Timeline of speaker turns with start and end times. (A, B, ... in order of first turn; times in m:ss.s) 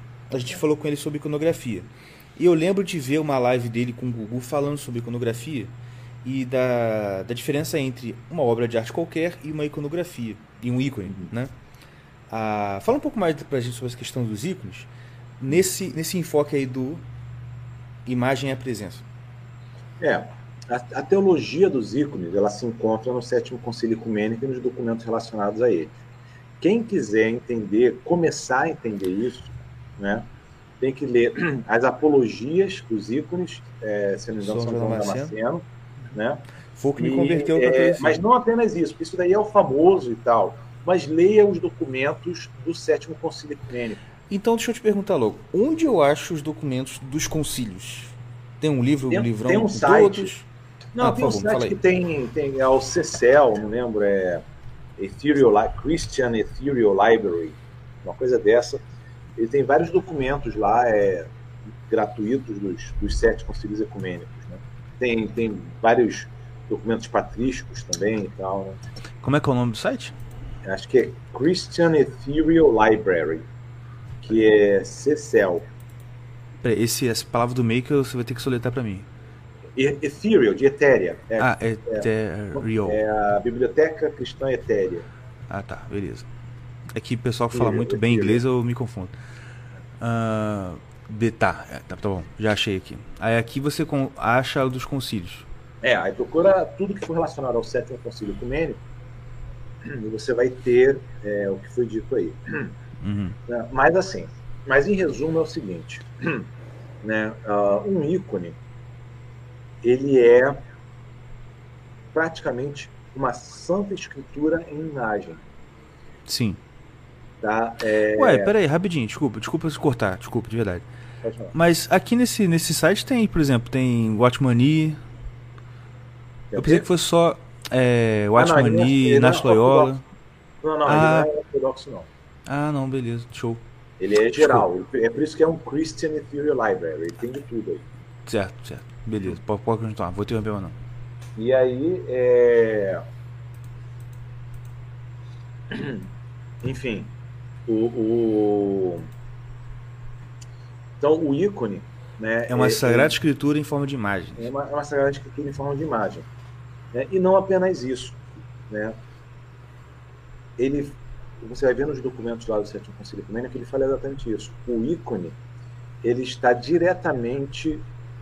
0:00.3-0:11.5 A
0:12.3-0:14.9 A
0:15.4-0:17.0 A
0:18.1-0:19.0 A
0:20.0-0:25.9 B
0:26.6-0:30.3 B
0:30.8-0:36.4 B
0:34.4-0:35.4 A
0:36.8-0:38.2 A
0:37.0-0:44.0 B
0:44.3-0:50.5 A
0:49.1-0:50.3 B
0:50.9-0:54.4 B
0:51.0-0:51.8 A
0:55.0-0:58.8 B
0:59.4-1:01.3 B
1:01.9-1:08.8 B
1:09.2-1:10.2 A
1:10.6-1:13.5 B
1:14.2-1:15.6 B
1:16.6-1:19.1 A
1:19.8-1:25.1 B
1:21.4-1:23.0 A
1:25.5-1:26.3 A
1:26.9-1:29.2 A
1:27.5-1:28.4 B
1:30.0-1:35.4 A
1:35.8-1:38.8 B
1:39.8-1:42.7 B
1:43.0-1:43.4 A
1:43.5-1:46.5 B
1:47.0-1:48.6 B
1:49.8-1:50.6 B
1:52.1-1:55.4 B
1:56.3-1:56.6 A
1:57.4-1:58.5 B
1:58.1-2:00.9 A
2:01.2-2:01.5 B
2:01.5-2:05.0 A
2:06.5-2:06.9 B
2:06.6-2:10.0 A
2:08.4-2:09.9 B
2:10.6-2:12.1 B
2:10.9-2:11.3 A
2:12.4-2:13.6 A
2:14.0-2:17.8 B
2:14.4-2:14.6 A
2:18.3-2:20.8 A
2:21.4-2:23.0 B
2:25.7-2:26.1 B
2:26.6-2:27.1 B
2:27.7-2:29.1 B
2:31.0-2:33.1 B
2:32.5-2:34.5 A
2:34.4-2:36.3 B
2:36.9-2:39.0 B
2:40.6-2:45.4 B
2:46.0-2:47.8 B